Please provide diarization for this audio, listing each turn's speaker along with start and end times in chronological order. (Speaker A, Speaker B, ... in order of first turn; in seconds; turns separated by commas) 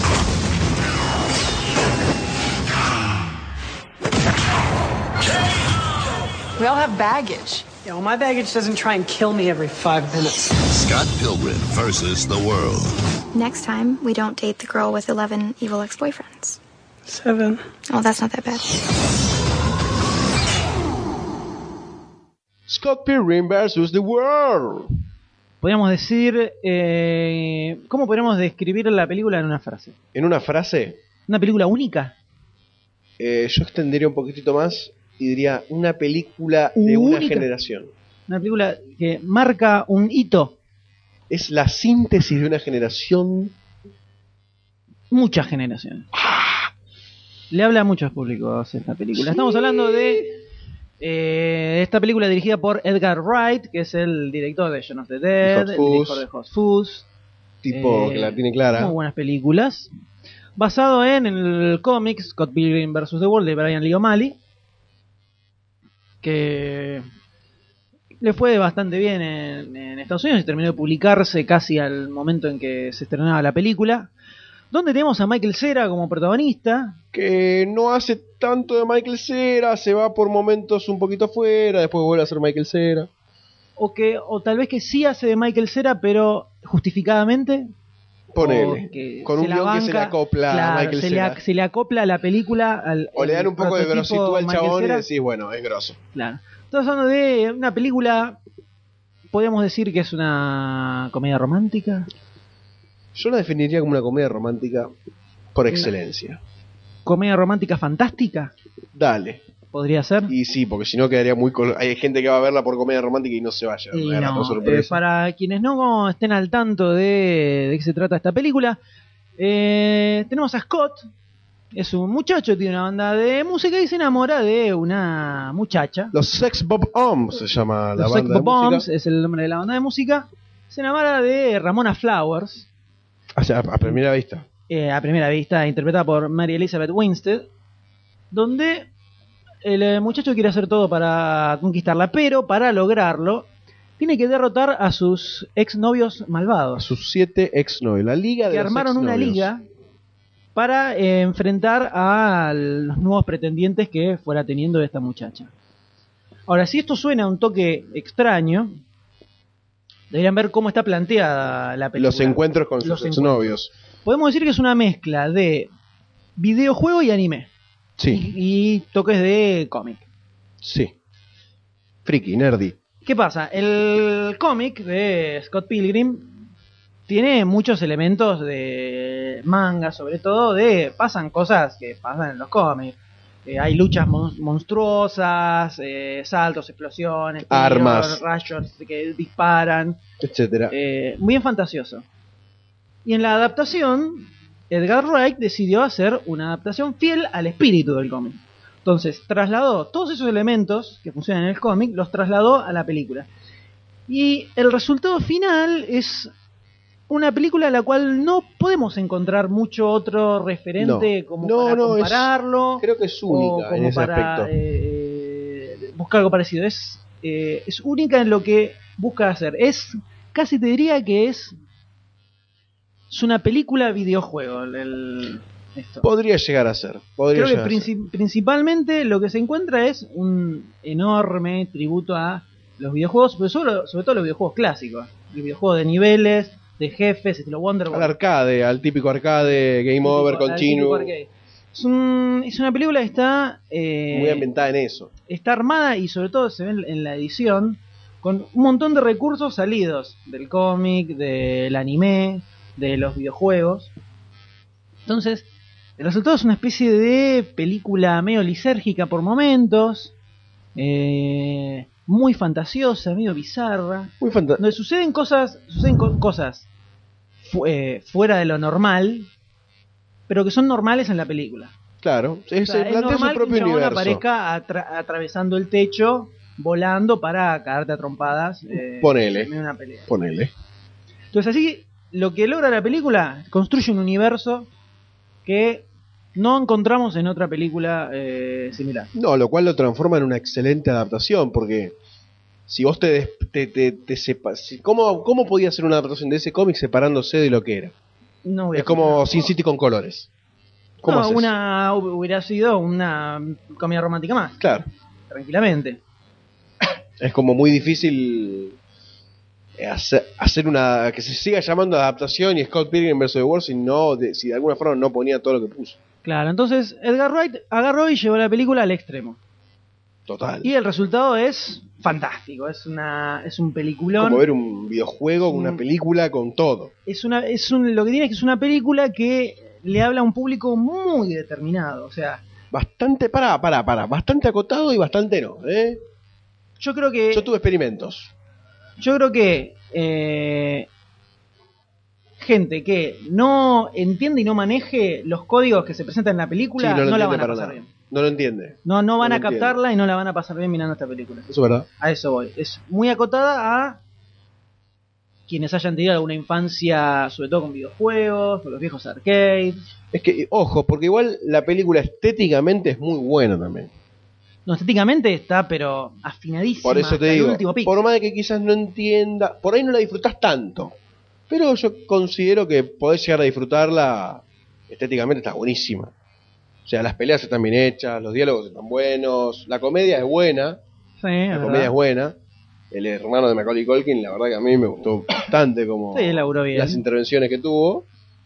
Speaker A: 6.6-10.6, Speaker B: 10.7-12.9, Speaker C: 13.3-16.6, Speaker A: 17.1-17.6, Speaker C: 17.9-18.6, Speaker D: 22.7-24.9, Speaker E: 25.6-29.9, Speaker D: 30.1-31.0, Speaker E: 31.3-32.1, Speaker D: 33.2-37.9, Speaker E: 36.8-37.5, Speaker E: 38.3-40.5, Speaker D: 41.3-43.5, Speaker E: 45.1-46.1, Speaker E: 47.5-50.3, Speaker D: 49.1-50.3, Speaker E: 51.0-57.1, Speaker D: 55.4-56.2, Speaker D: 57.6-58.9, Speaker E: 57.7-59.9, Speaker E: 60.6-64.3, Speaker E: 66.2-67.0, Speaker E: 68.2-74.1, Speaker E: 74.7-77.0, Speaker D: 77.1-83.1, Speaker E: 83.8-87.7, Speaker D: 88.3-91.4, Speaker E: 88.4-95.1, Speaker D: 93.2-96.0, Speaker E: 96.1-98.4, Speaker E: 99.3-102.1, Speaker D: 103.1-104.9, Speaker D: 105.5-106.4, Speaker E: 107.0-108.5, Speaker D: 108.9-109.4, Speaker E: 109.7-110.3, Speaker D: 110.3-115.0, Speaker E: 113.9-118.8, Speaker E: 119.4-121.0, Speaker E: 121.7-126.1, Speaker D: 126.1-128.8, Speaker E: 128.0-132.7, Speaker D: 133.3-134.4, Speaker E: 134.7-137.5, Speaker E: 138.3-138.9, Speaker E: 139.6-143.5, Speaker E: 144.0-146.8, Speaker D: 146.8-149.5, Speaker E: 148.5-149.6, Speaker E: 150.6-155.5, Speaker E: 156.5-158.8, Speaker E: 160.1-163.5, Speaker D: 161.9-163.7, Speaker E: 164.1-165.7, Speaker E: 166.4-167.5, Speaker D: 168.0-168.3, Speaker E: 168.1-170.0, Speaker D: 170.6-170.9, Speaker D: 172.1-172.8, Speaker E: 173.1-176.3, Speaker E: 177.1-190.0, Speaker D: 187.4-188.2, Speaker D: 190.2-190.7, Speaker E: 190.7-192.1, Speaker E: 193.1-203.3, Speaker E: 204.1-206.3, Speaker E: 207.1-221.6, Speaker D: 210.8-214.5, Speaker E: 223.1-226.1, Speaker D: 226.0-227.9, Speaker E: 227.3-238.2, Speaker D: 237.9-241.1, Speaker E: 240.0-244.5, Speaker D: 244.1-245.1, Speaker E: 245.3-253.9, Speaker E: 255.1-255.4, Speaker E: 256.0-260.1, Speaker E: 260.8-266.7, Speaker D: 264.2-264.6, Speaker E: 267.4-269.3, Speaker E: 270.3-271.7, Speaker D: 272.0-274.2, Speaker E: 272.6-280.1, Speaker D: 278.7-279.5, Speaker D: 280.1-280.5, Speaker E: 281.3-284.7, Speaker E: 285.4-289.1, Speaker D: 289.1-291.9, Speaker D: 292.7-297.9, Speaker E: 298.4-299.5, Speaker D: 298.7-300.3, Speaker D: 301.0-301.5, Speaker E: 301.1-304.6, Speaker D: 304.6-304.9, Speaker E: 305.3-306.0, Speaker D: 307.2-308.8, Speaker D: 309.8-316.0, Speaker E: 316.2-319.4, Speaker D: 320.3-320.7, Speaker E: 320.6-324.4, Speaker D: 324.2-326.9, Speaker E: 325.5-325.8, Speaker E: 327.1-332.4, Speaker D: 332.7-336.0, Speaker E: 336.8-337.5, Speaker D: 337.3-338.3, Speaker E: 339.0-340.9, Speaker E: 342.4-347.9, Speaker D: 346.8-349.8, Speaker E: 348.9-354.0, Speaker D: 351.5-351.9, Speaker E: 355.5-359.8, Speaker D: 360.1-363.9, Speaker E: 364.6-368.0, Speaker D: 366.8-370.9, Speaker D: 371.5-376.1, Speaker D: 376.9-380.8, Speaker E: 381.2-381.9, Speaker D: 381.5-382.4, Speaker D: 382.9-388.1, Speaker E: 386.1-387.0